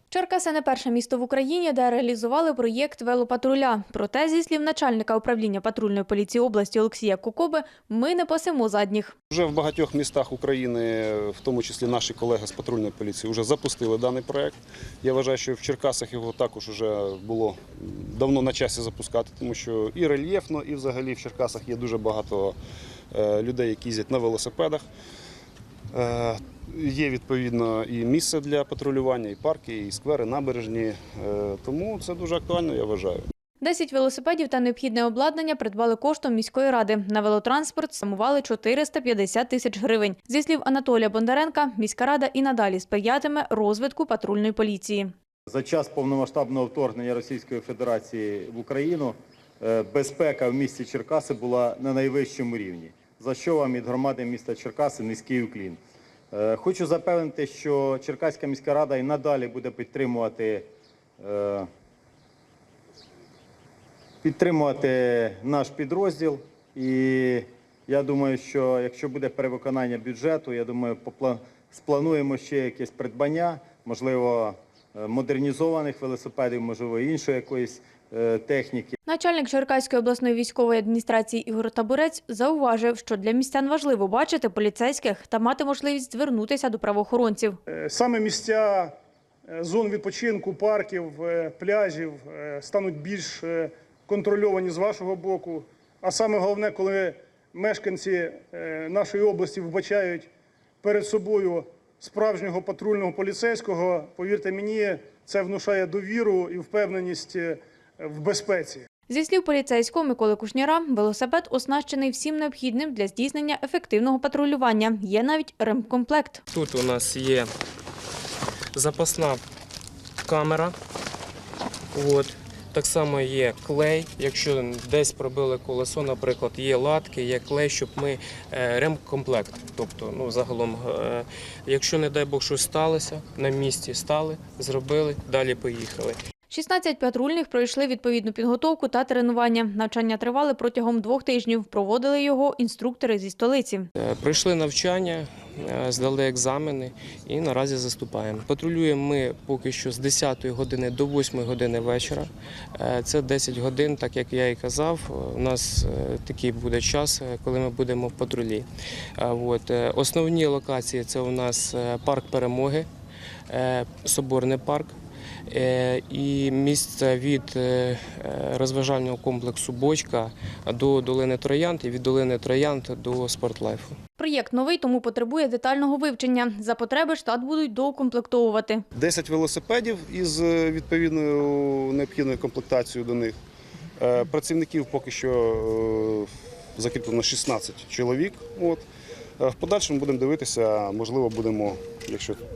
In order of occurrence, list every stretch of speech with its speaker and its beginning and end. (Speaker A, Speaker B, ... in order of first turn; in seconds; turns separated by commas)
Speaker A: 0.1-9.2, Speaker B: 9.3-22.6, Speaker B: 23.1-24.8, Speaker B: 25.9-33.2, Speaker A: 33.6-45.1, Speaker C: 45.5-55.8, Speaker C: 56.3-60.7, Speaker C: 61.2-61.7, Speaker C: 64.2-79.0, Speaker A: 79.1-87.6, Speaker D: 87.7-88.9, Speaker D: 89.5-100.3, Speaker D: 100.8-108.9, Speaker A: 109.1-116.4, Speaker E: 116.5-117.5, Speaker E: 118.7-119.4, Speaker E: 120.2-120.8, Speaker E: 121.9-136.2, Speaker A: 136.5-143.9, Speaker E: 144.0-158.7, Speaker E: 159.2-162.9, Speaker E: 163.5-165.0, Speaker E: 165.5-174.0, Speaker A: 174.2-178.9, Speaker B: 178.9-183.4, Speaker B: 184.0-188.8, Speaker B: 189.4-192.4